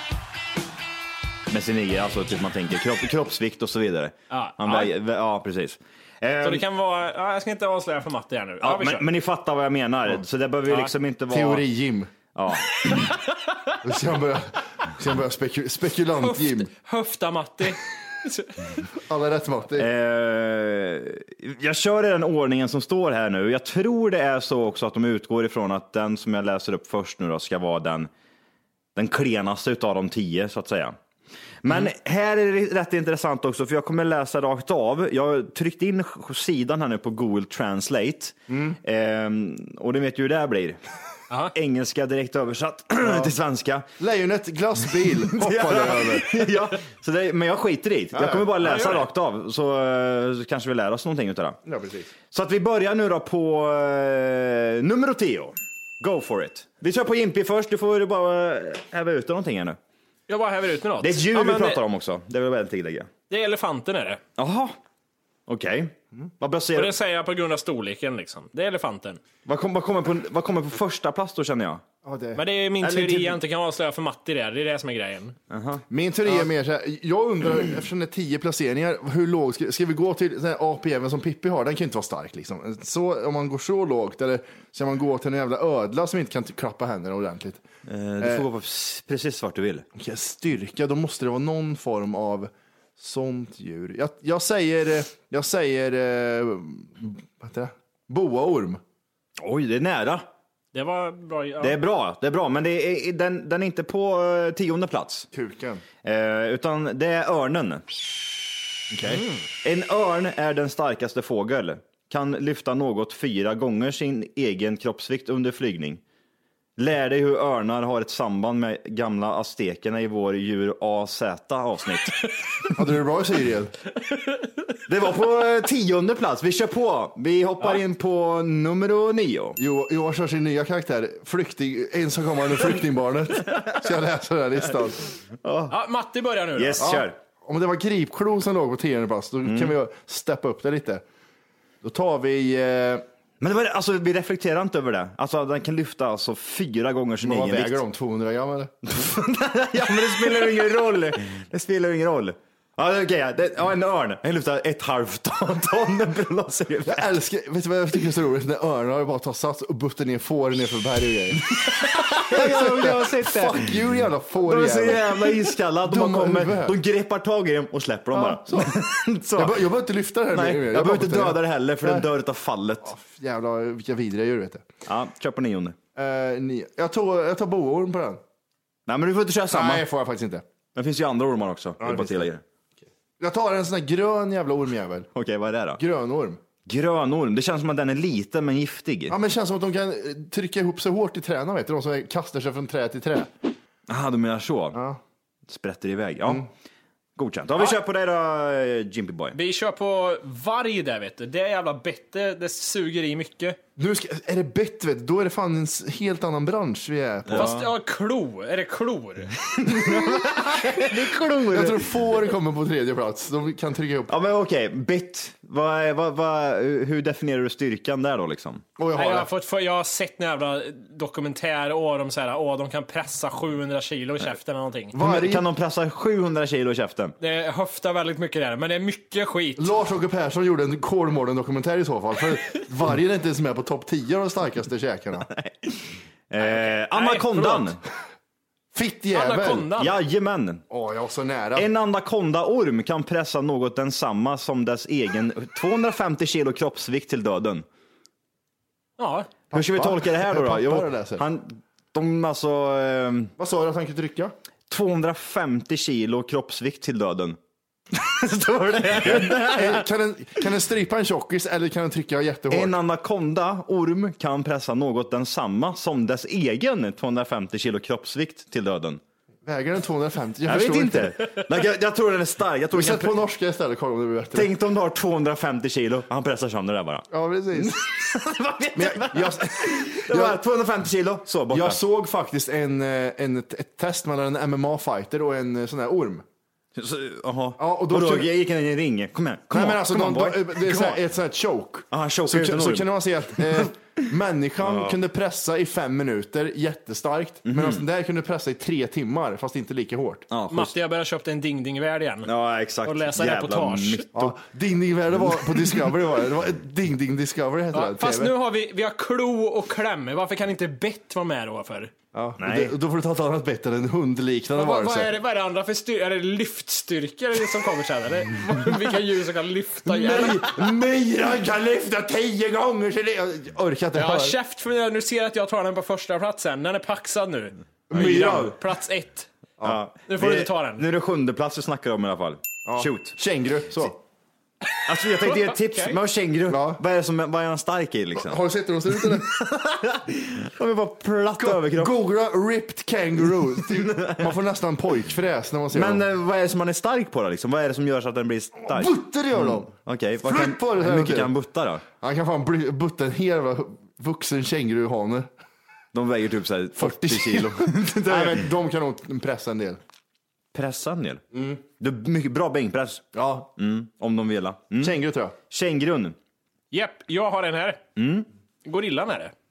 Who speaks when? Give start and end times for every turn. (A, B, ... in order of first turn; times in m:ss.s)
0:01.5-0:06.6 A
0:04.3-0:04.9 B
0:06.4-0:09.1 B
0:08.6-0:11.6 A
0:10.7-0:10.9 B
0:11.3-0:12.1 C
0:12.3-0:13.1 A
0:12.9-0:13.3 B
0:13.8-0:16.7 C
0:16.2-0:18.8 B
0:19.1-0:19.9 C
0:19.8-0:28.1 A
0:29.0-0:31.0 A
0:31.6-0:40.8 A
0:38.5-0:38.8 C
0:41.5-0:43.9 A
0:43.0-0:43.3 C
0:44.0-0:46.5 C
0:45.3-0:51.6 A
0:48.1-0:48.6 C
0:48.6-0:49.1 B
0:51.6-0:52.1 C
0:52.3-0:59.8 A
1:00.3-1:01.8 B
1:01.0-1:03.1 A
1:03.3-1:04.2 B
1:04.4-1:04.8 A
1:05.5-1:07.0 A
1:06.8-1:09.2 B
1:09.4-1:11.8 A
1:12.0-1:12.4 C
1:12.4-1:15.4 B
1:12.8-1:13.4 A
1:15.5-1:15.8 A
1:15.9-1:27.6 C
1:27.9-1:29.9 A
1:28.2-1:28.5 C
1:30.0-1:38.8 C
1:39.4-1:40.3 A
1:40.7-1:41.8 B
1:41.6-1:45.3 A
1:45.3-1:45.8 C
1:46.0-1:47.8 A
1:48.9-1:49.2 C
1:49.6-1:56.0 A
1:56.8-2:02.3 A
2:02.8-2:03.7 C
2:04.9-2:09.6 A
2:09.6-2:15.1 C
2:15.4-2:15.8 A
2:15.7-2:16.9 B
2:16.6-2:17.2 A
2:16.8-2:21.0 C
2:19.4-2:19.8 A
2:21.8-2:23.0 C
2:23.4-2:27.8 A
2:27.2-2:28.7 C
2:28.9-2:37.1 A
2:36.9-2:46.8 C
2:41.7-2:43.7 A
2:44.4-2:49.6 A
2:48.1-2:48.8 C
2:49.4-2:52.1 C
2:50.3-2:52.9 A
2:52.8-2:54.7 C
2:54.9-2:55.8 A
2:56.0-2:58.2 C
2:58.9-2:59.8 A
2:59.5-3:00.4 C
3:00.8-3:02.4 A
3:01.8-3:02.3 C
3:03.2-3:05.1 C
3:05.1-3:05.8 A
3:05.8-3:06.4 C
3:06.6-3:09.2 A
3:09.1-3:13.3 C
3:13.9-3:14.8 A
3:14.7-3:15.0 C
3:15.5-3:16.4 A
3:17.2-3:19.4 A
3:19.3-3:23.6 B
3:23.8-3:27.5 C
3:27.3-3:27.7 A
3:27.3-3:29.4 B
3:29.5-3:31.9 A
3:29.8-3:30.9 C
3:31.5-3:34.2 C
3:34.1-3:38.6 A
3:38.8-3:39.3 C
3:38.9-3:45.0 B
3:44.9-3:45.5 C
3:45.0-3:47.2 A
3:47.2-3:49.7 B
3:49.6-3:55.3 C
3:55.3-3:57.8 A
3:56.4-3:57.7 B
3:58.7-3:59.7 C
3:59.1-3:59.9 B
3:59.8-4:00.6 A
4:00.7-4:01.7 C
4:01.6-4:07.6 A
4:09.0-4:09.3 B
4:09.5-4:11.2 C
4:09.5-4:13.3 A
4:13.4-4:14.4 C
4:14.7-4:17.4 A
4:17.9-4:19.9 A
4:19.0-4:22.8 C
4:22.5-4:29.0 A
4:29.4-4:31.4 C
4:30.4-4:33.1 A
4:32.7-4:34.6 C
4:34.3-4:41.8 A
4:37.1-4:37.9 C
4:38.8-4:40.4 C
4:41.5-4:46.2 C
4:46.8-4:51.0 A
4:47.6-4:48.4 C
4:49.5-5:00.3 C
4:51.9-4:53.7 A
4:54.6-4:55.0 A
4:57.5-4:57.8 A
5:00.3-5:00.7 A
5:00.5-5:02.3 B
5:02.2-5:04.4 A
5:02.8-5:04.1 B
5:04.1-5:08.3 C
5:07.7-5:11.9 B
5:12.1-5:15.1 C
5:12.4-5:12.8 A
5:14.6-5:20.5 B
5:19.9-5:24.4 C
5:24.0-5:29.3 B
5:27.9-5:28.6 C
5:29.6-5:33.2 A
5:30.1-5:30.8 B
5:32.6-5:34.0 C
5:34.9-5:38.4 A
5:35.2-5:36.0 B
5:36.5-5:36.8 C
5:38.2-5:39.4 C
5:39.0-5:41.9 A
5:41.4-5:46.0 C
5:43.6-5:44.4 A
5:45.7-5:51.8 A
5:48.6-5:51.3 C
5:51.9-5:55.3 C
5:55.9-5:58.5 A
5:56.8-5:59.8 C
6:00.5-6:01.2 A
6:01.3-6:01.6 C
6:01.8-6:03.0 A
6:03.1-6:03.5 C
6:03.6-6:05.0 A
6:04.8-6:05.4 C
6:05.5-6:06.2 A
6:06.7-6:07.8 B
6:08.0-6:08.3 A
6:08.6-6:09.3 B